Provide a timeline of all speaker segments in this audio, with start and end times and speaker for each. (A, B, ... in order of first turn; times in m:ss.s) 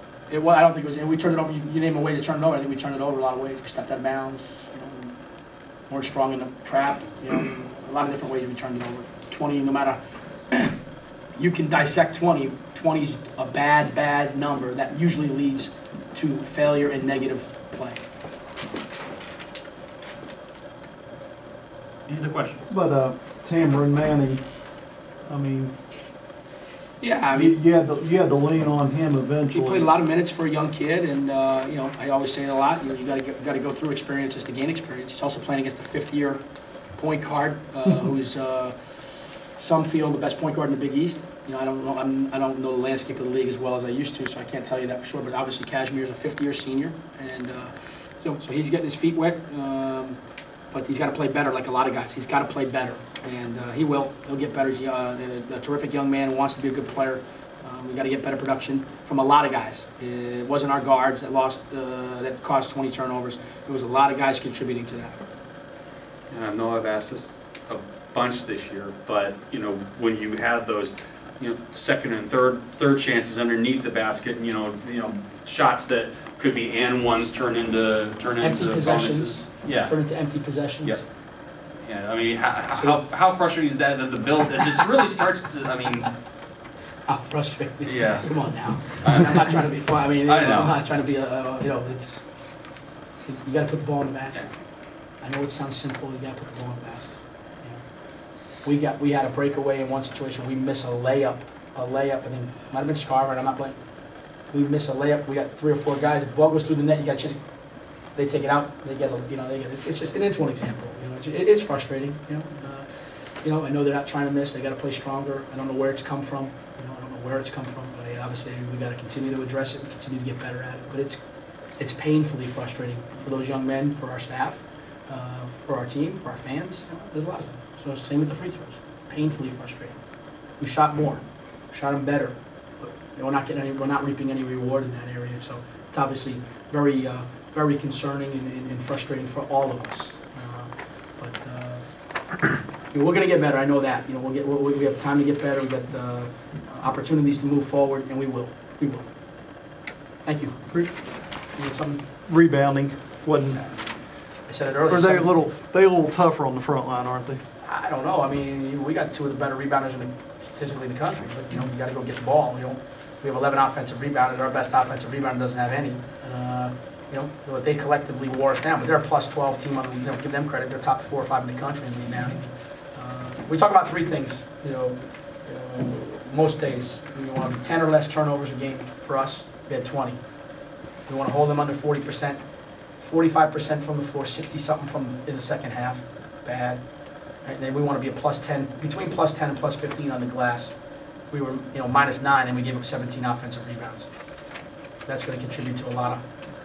0:00.3-0:05.2 A
0:05.8-0:10.8 A
0:11.4-0:18.0 A
0:22.1-0:22.7 B
0:22.7-0:24.6 C
0:25.2-0:25.8 C
0:27.0-0:27.6 A
0:27.3-0:29.9 C
0:29.5-1:05.2 A
1:06.3-1:20.1 B
1:18.4-1:21.0 A
1:21.6-1:26.2 B
1:22.7-1:23.0 A
1:27.0-1:32.6 A
1:27.8-1:30.8 B
1:33.2-1:43.8 A
1:44.4-1:47.4 A
1:47.9-2:10.0 A
2:10.5-2:29.1 A
2:30.2-2:30.6 A
2:31.5-2:32.0 A
2:32.2-2:33.7 C
2:33.6-2:35.3 A
2:34.9-2:37.4 C
2:37.6-3:00.4 A
3:01.0-3:14.1 A
3:15.0-3:16.2 A